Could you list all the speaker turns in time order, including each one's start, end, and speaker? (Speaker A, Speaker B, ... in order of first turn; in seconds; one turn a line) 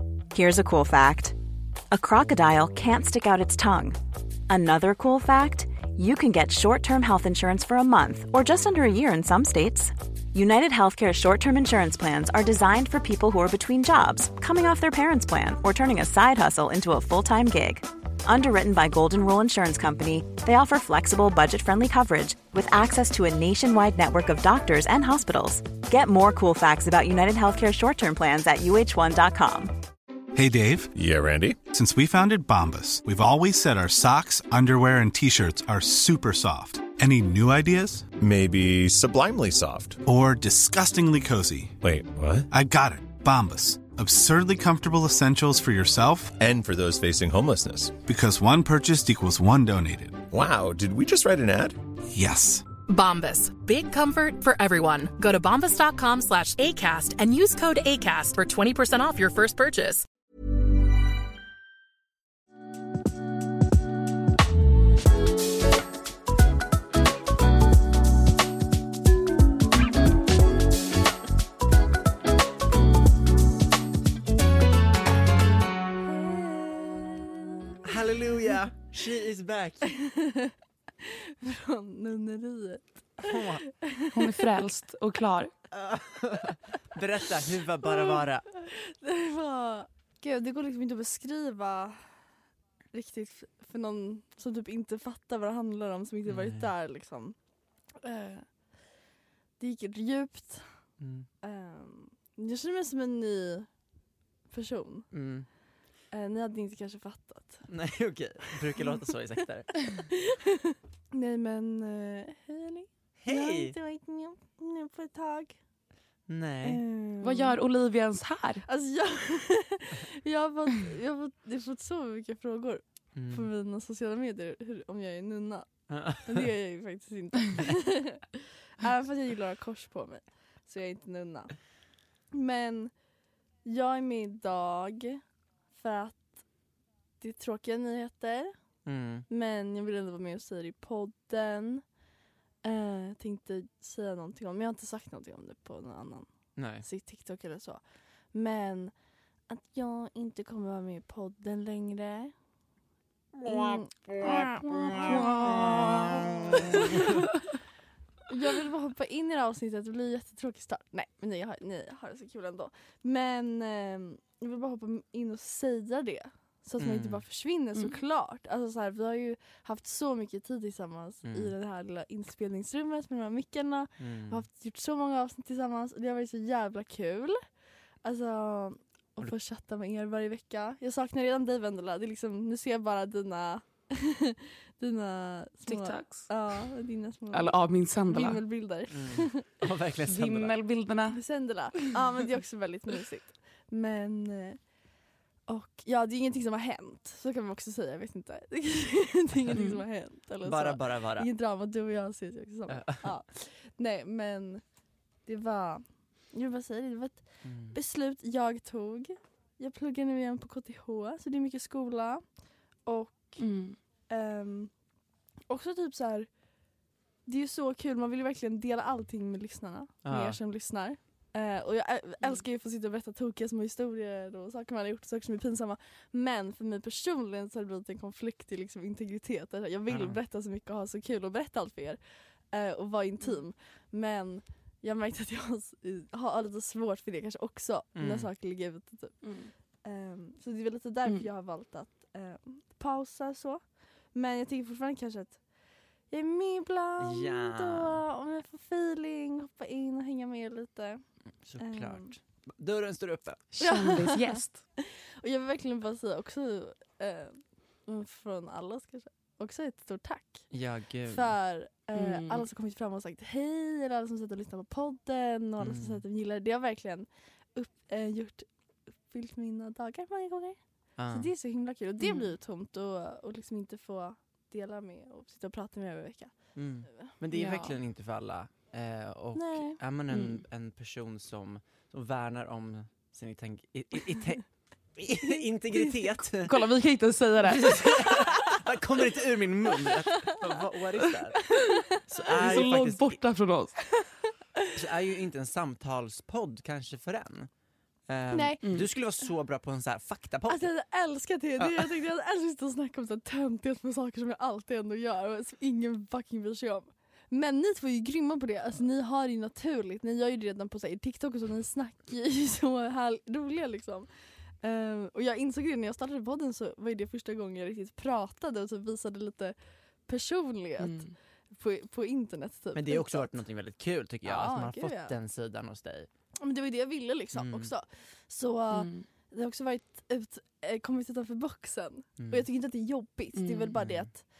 Speaker A: 0.3-1.4
Speaker A: 1.9-4.0
Speaker A: 4.5-29.7
Speaker B: 30.4-30.9
Speaker C: 30.9-31.7
Speaker B: 31.6-38.1
Speaker C: 38.2-40.0
Speaker B: 40.0-41.8
Speaker C: 41.8-42.5
Speaker B: 42.5-46.4
Speaker C: 46.4-48.0
Speaker B: 48.0-50.3
Speaker C: 50.3-51.8
Speaker B: 52.1-52.7
Speaker D: 52.9-60.1
Speaker E: 76.1-77.6
Speaker F: 77.8-79.9
Speaker E: 79.9-84.3
Speaker F: 83.2-83.6
Speaker G: 84.1-85.5
Speaker F: 85.7-88.5
Speaker E: 87.8-92.0
Speaker E: 92.9-97.3
Speaker F: 96.3-96.7
Speaker E: 98.0-98.5
Speaker E: 99.6-100.7
Speaker F: 101.0-101.3
Speaker E: 101.4-103.7
Speaker E: 104.5-105.1
Speaker F: 105.1-105.5
Speaker E: 106.1-107.6
Speaker F: 107.7-109.9
Speaker E: 109.9-115.6
Speaker F: 113.2-113.8
Speaker F: 116.3-116.8
Speaker E: 116.6-117.6
Speaker G: 117.2-118.7
Speaker E: 118.7-125.7
Speaker F: 123.2-123.5
Speaker F: 125.9-126.5
Speaker E: 126.3-131.5
Speaker E: 132.3-132.9
Speaker E: 133.7-135.2
Speaker E: 135.8-136.2
Speaker E: 137.2-138.5
Speaker F: 138.9-139.3
Speaker E: 139.3-141.8
Speaker E: 142.6-146.3
Speaker F: 146.6-146.9
Speaker E: 146.8-147.8
Speaker E: 148.3-148.9
Speaker E: 149.5-152.3
Speaker E: 153.4-157.5
Speaker F: 154.2-157.1
Speaker E: 158.3-177.4
Speaker F: 166.8-167.2
Speaker F: 171.3-171.5
Speaker F: 174.0-174.4
Speaker E: 178.0-187.5
Speaker G: 185.7-186.3
Speaker G: 187.3-188.4
Speaker E: 188.1-189.5
Speaker F: 188.9-190.5
Speaker G: 190.1-191.2
Speaker E: 191.1-194.6
Speaker E: 195.5-204.6
Speaker G: 199.5-199.8
Speaker F: 200.4-201.3
Speaker F: 202.7-203.1
Speaker E: 205.3-212.2
Speaker F: 207.4-207.8
Speaker E: 212.9-213.4
Speaker G: 213.4-213.8
Speaker E: 214.1-214.7
Speaker E: 215.5-216.3
Speaker E: 217.3-232.0
Speaker F: 220.1-220.4
Speaker F: 229.9-230.2
Speaker E: 232.5-239.2
Speaker F: 238.0-238.3
Speaker G: 239.2-239.5
Speaker E: 239.8-243.6
Speaker E: 244.1-245.4
Speaker E: 246.1-251.0
Speaker F: 247.0-248.0
Speaker F: 251.4-253.5
Speaker E: 251.6-252.1
Speaker G: 253.6-254.6
Speaker E: 253.6-260.5
Speaker F: 260.5-261.4
Speaker E: 261.1-268.5
Speaker G: 261.9-262.4
Speaker F: 265.6-266.0
Speaker E: 269.1-270.6
Speaker F: 271.0-271.3
Speaker E: 271.1-276.3
Speaker G: 272.0-272.3
Speaker F: 276.6-284.4
Speaker G: 277.3-277.8
Speaker E: 279.4-279.8
Speaker G: 280.1-280.4
Speaker F: 285.0-286.7
Speaker G: 286.5-287.9
Speaker F: 287.5-293.2
Speaker E: 289.9-290.3
Speaker E: 291.5-291.8
Speaker G: 292.3-293.8
Speaker F: 294.7-297.5
Speaker F: 298.1-300.7
Speaker E: 298.3-298.6
Speaker G: 298.6-298.9
Speaker E: 300.5-314.1
Speaker F: 301.6-302.0
Speaker E: 314.6-319.6
Speaker E: 320.1-323.4
Speaker G: 320.8-321.1
Speaker F: 322.8-326.1
Speaker E: 324.2-325.1
Speaker E: 326.4-334.2
Speaker F: 327.3-327.7
Speaker G: 328.7-329.1
Speaker G: 333.4-333.8